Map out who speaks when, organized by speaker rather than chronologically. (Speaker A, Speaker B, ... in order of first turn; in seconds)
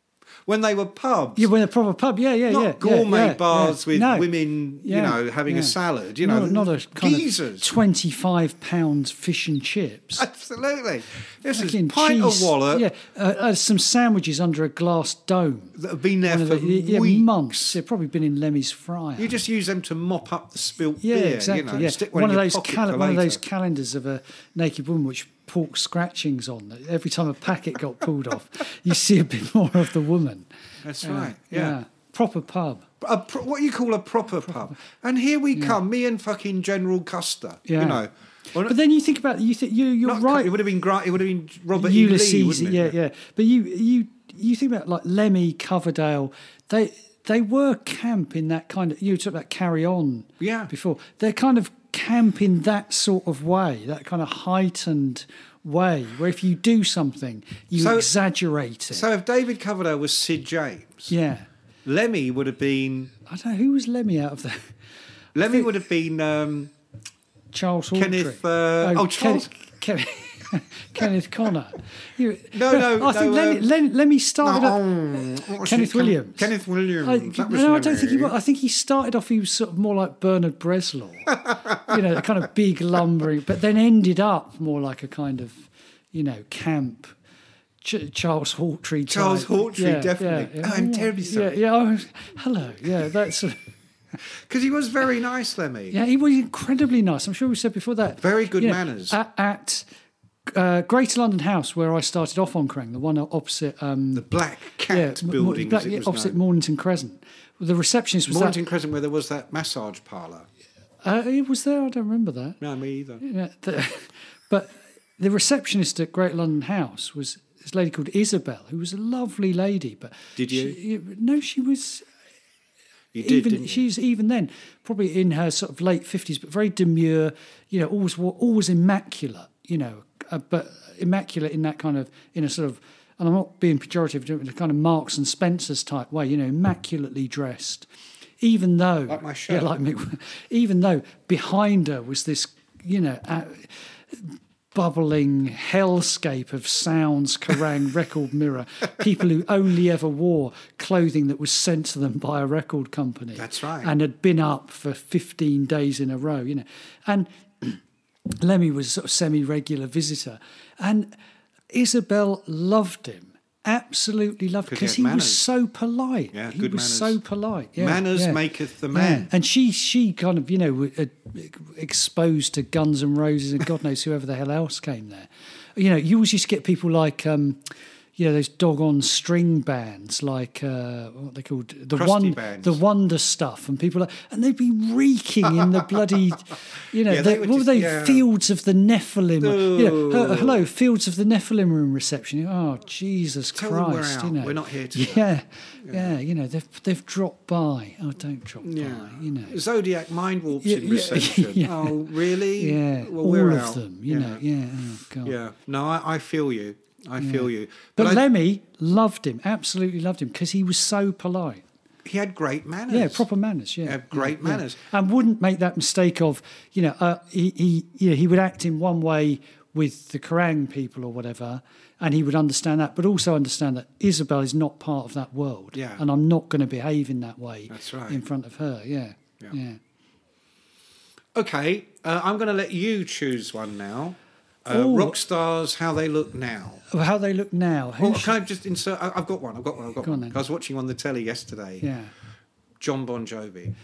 Speaker A: 0.5-1.5, 2.5-7.7, 10.2-12.9, 15.7-17.7, 19.2-23.4, 30.8-31.8, 33.0-38.8, 40.0-42.9, 50.4-50.7, 57.7-58.1, 58.9-61.1, 61.8-63.1, 65.3-66.7, 67.9-69.5, 72.5-73.7, 74.4-78.3, 81.4-82.0, 89.1-91.5, 94.4-96.0, 98.2-99.2, 104.1-106.4, 108.3-110.5, 112.6-113.2, 120.3-120.8, 123.1-123.8, 139.1-139.7, 153.3-153.9, 164.7-165.4, 166.3-167.2, 167.8-169.3, 181.9-182.8, 187.0-188.2, 189.4-190.7, 193.5-195.2, 195.8-196.2, 198.6-204.4, 205.1-208.2, 212.0-213.2, 213.8-214.8, 225.7-226.0, 227.7-228.2, 231.3-236.8, 238.0-241.9, 242.8-243.7
Speaker B: 1.4-4.3, 4.8-10.2, 11.5-19.3, 21.0-30.5, 31.0-32.9, 37.6-38.0, 38.6-40.5, 41.7-59.1, 61.1-61.5, 63.2-64.8, 67.5-74.8, 75.6-76.5, 77.0-87.1, 87.8-93.6, 95.9-99.8, 100.5-104.2, 104.9-108.6, 111.0-112.6, 113.2-122.0, 123.2-137.9, 138.4-157.8, 158.4-161.1, 161.7-168.4, 168.9-199.5, 200.6-205.3, 207.2-211.6, 212.9-229.8, 234.7-235.2, 236.9-238.3, 240.0-240.3, 241.8-242.1